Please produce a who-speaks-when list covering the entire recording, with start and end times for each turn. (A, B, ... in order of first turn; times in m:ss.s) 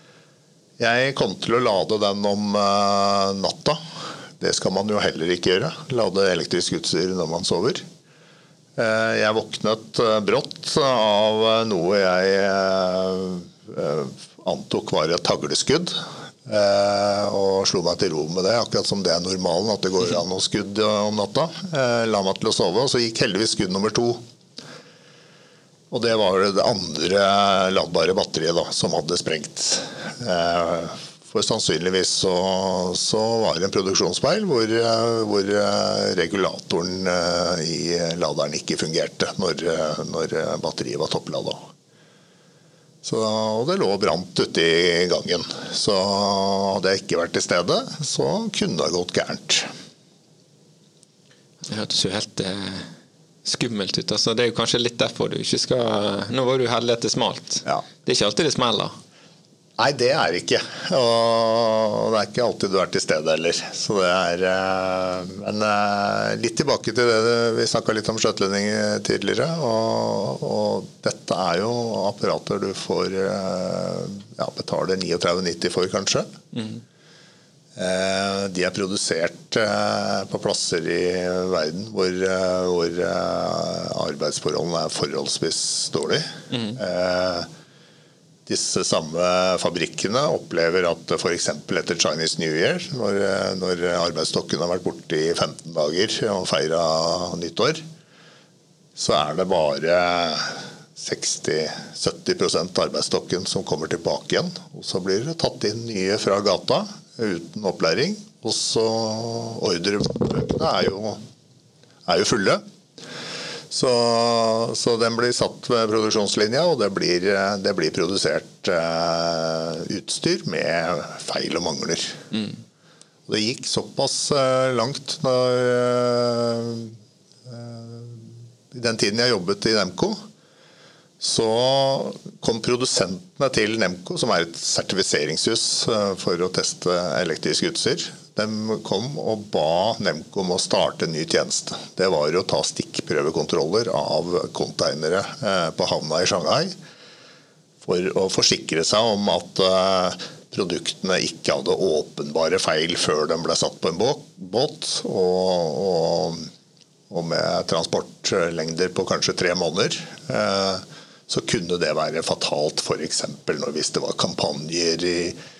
0:00.8-0:03.8 A
0:04.4-0:07.8 A
0:08.8-0:24.2 A
0:25.9-0:41.6 A
0:43.0-0:49.7 A
0:51.6-0:52.9 B
0:53.4-0:58.9 B
0:59.8-1:16.3 A
1:16.5-1:16.8 B
1:17.8-1:27.5 A
1:26.5-1:26.8 B
1:28.5-1:37.8 A
1:39.0-1:51.2 A
1:52.0-1:52.6 A
1:53.7-2:02.2 A
2:03.3-2:10.2 A
2:11.2-2:26.7 A
2:27.8-2:36.5 A
2:37.1-2:45.4 A